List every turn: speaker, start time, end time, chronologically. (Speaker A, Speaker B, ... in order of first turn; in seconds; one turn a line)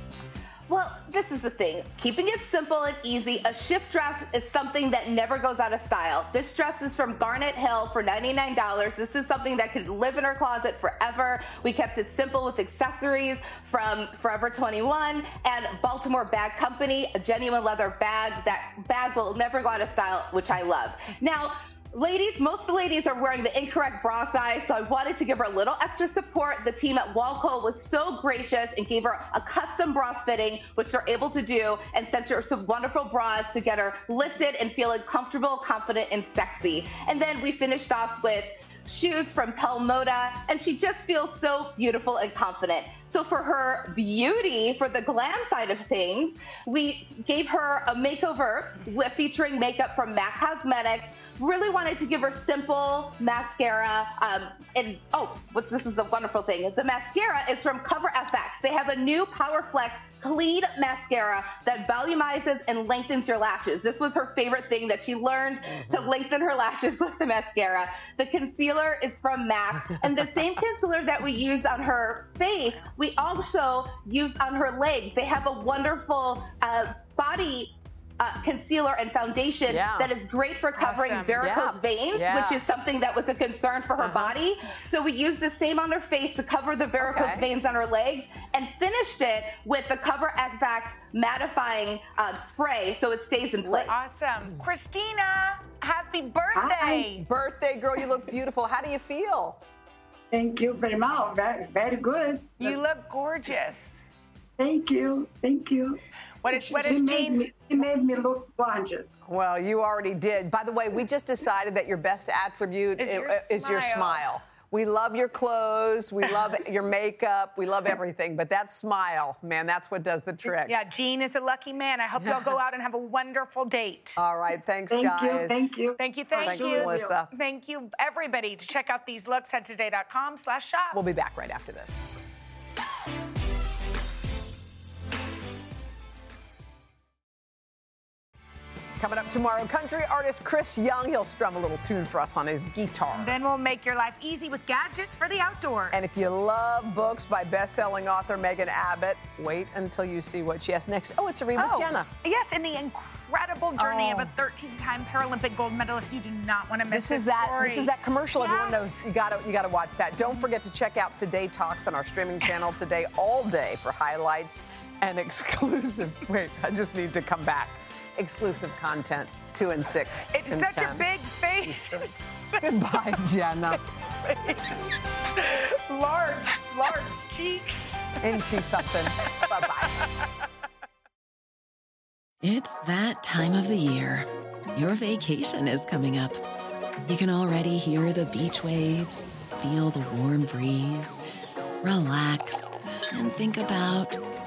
Speaker A: 0.7-93.9
Speaker B: 65.7-66.1
Speaker B: 70.0-70.5
Speaker B: 79.6-80.1
Speaker C: 80.8-81.4
Speaker B: 81.4-82.6
Speaker B: 84.0-84.4
Speaker B: 87.0-87.5
Speaker B: 93.6-93.9
Speaker C: 93.9-97.2
Speaker D: 96.5-97.1
Speaker B: 97.0-99.6
Speaker D: 100.3-102.8
Speaker C: 102.6-104.0
Speaker D: 104.6-109.1
Speaker C: 106.4-107.5
Speaker B: 109.2-120.8
Speaker C: 113.0-114.2
Speaker C: 120.6-124.2
Speaker B: 122.2-122.5
Speaker B: 124.2-125.7
Speaker D: 124.9-127.2
Speaker C: 126.0-131.0
Speaker B: 126.3-127.3
Speaker B: 130.9-132.0
Speaker B: 139.0-143.4
Speaker C: 143.1-146.2
Speaker B: 145.9-152.1
Speaker C: 151.6-159.0
Speaker B: 153.8-154.3
Speaker B: 156.9-173.8
Speaker C: 170.3-172.7
Speaker C: 173.7-178.1
Speaker B: 178.2-180.0
Speaker C: 179.2-179.7
Speaker E: 182.4-186.4
Speaker E: 187.1-191.2
Speaker E: 191.8-194.2